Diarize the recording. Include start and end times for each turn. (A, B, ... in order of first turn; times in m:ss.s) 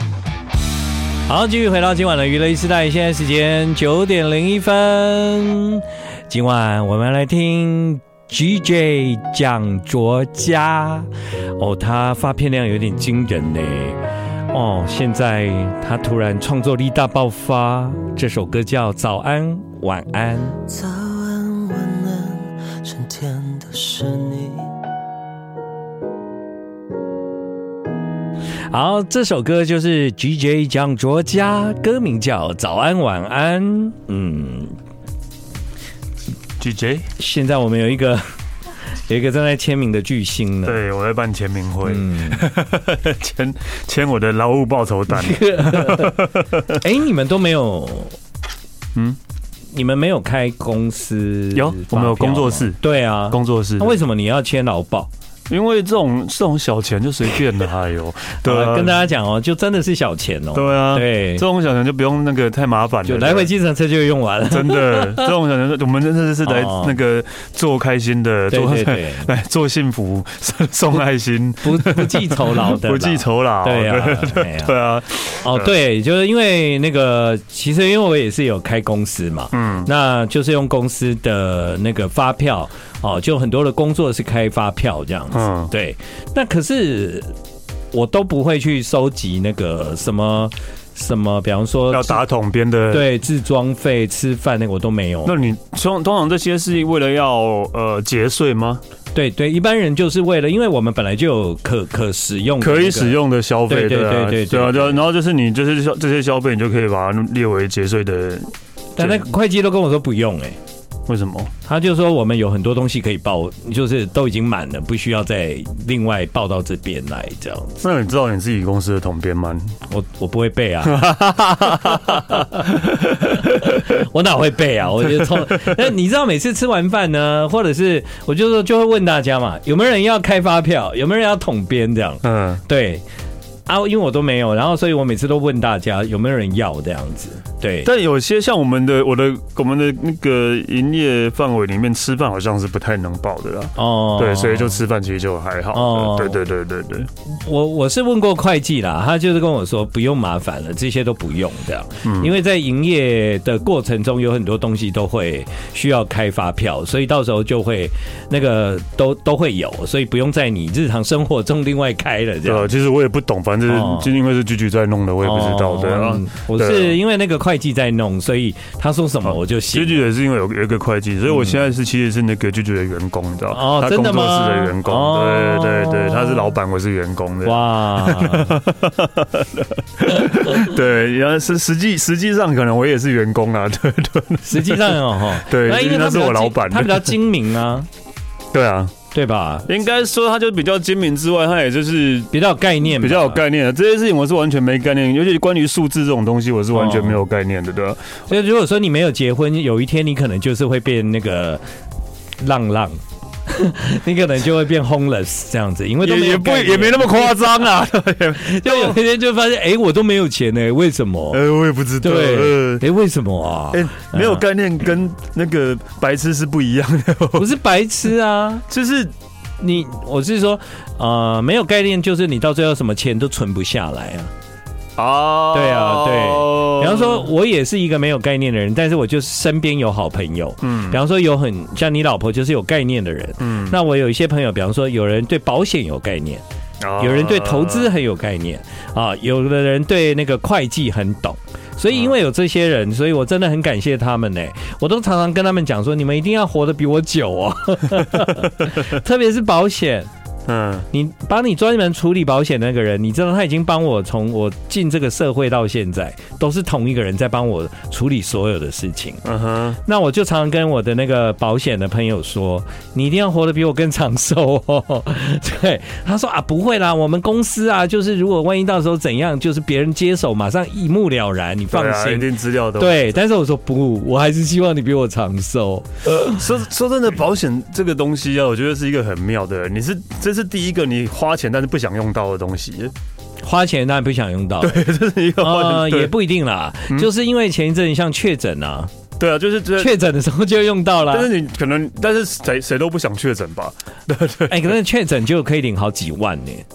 0:01.3-0:14.0 A
0:14.5-0:20.6 A
0:20.7-0:24.7 B
0:28.7-0:34.8 A
0:36.6-0:37.1 C
0:37.2-0:38.2 A
0:39.0-0:40.8 A
0:40.6-0:46.8 C
0:41.8-0:42.4 A
0:45.1-0:48.2 A
0:49.7-0:55.1 A
0:51.5-0:54.0 C
0:55.5-0:59.0 C
0:58.4-1:01.4 A
1:00.5-1:03.5 C
1:03.0-1:05.3 A
1:04.4-1:15.7 C
1:06.4-1:07.0 A
1:08.5-1:09.3 A
1:11.6-1:14.7 A
1:15.4-1:27.3 A
1:19.5-1:19.9 C
1:25.3-1:25.7 C
1:27.9-1:32.2 A
1:31.9-1:33.1 C
1:32.9-1:35.3 A
1:35.2-1:38.8 C
1:39.1-1:45.0 A
1:42.6-1:49.3 C
1:49.0-1:50.6 A
1:51.1-1:51.5 C
1:51.6-1:57.8 A
1:57.8-1:59.7 C
1:59.9-2:13.0 A
2:00.8-2:03.8 C
2:05.2-2:05.8 C
2:12.2-2:12.6 C
2:13.7-2:17.9 A
2:17.8-2:27.1 C
2:23.8-2:24.8 A
2:25.7-2:26.4 A
2:27.2-2:42.7 A
2:32.0-2:32.3 C
2:42.4-2:47.0 C
2:43.7-2:44.1 A
2:45.2-2:50.0 A
2:49.2-3:07.2 C
2:51.3-2:51.6 A
2:53.5-2:56.5 A
2:57.4-2:58.6 A
3:04.4-3:07.9 A
3:08.5-3:08.9 C
3:09.1-3:09.7 A
3:09.6-3:18.1 C
3:12.3-3:13.4 A
3:16.7-3:17.2 A
3:18.3-3:21.6 A
3:22.4-3:27.3 A
3:26.0-3:29.0 C
3:28.4-3:31.4 A
3:31.3-3:32.8 C
3:32.0-3:34.4 A
3:33.7-3:37.5 C
3:37.4-3:38.6 A
3:38.7-3:39.1 C
3:39.6-3:44.3 A
3:45.0-3:47.3 C
3:45.5-3:56.4 A
3:50.6-3:51.0 C
3:53.4-3:53.8 C
3:56.8-3:57.9 C
3:57.0-4:10.1 A
4:10.5-4:10.9 C
4:10.9-4:19.2 A
4:19.2-4:19.8 C
4:19.8-4:36.4 A
4:31.7-4:33.2 C
4:36.3-4:42.9 C
4:43.4-4:44.8 A
4:44.6-4:46.1 C
4:45.4-4:48.9 A
4:49.2-4:50.0 C
4:49.8-4:51.3 A
4:51.1-4:54.7 C
4:54.5-4:56.6 A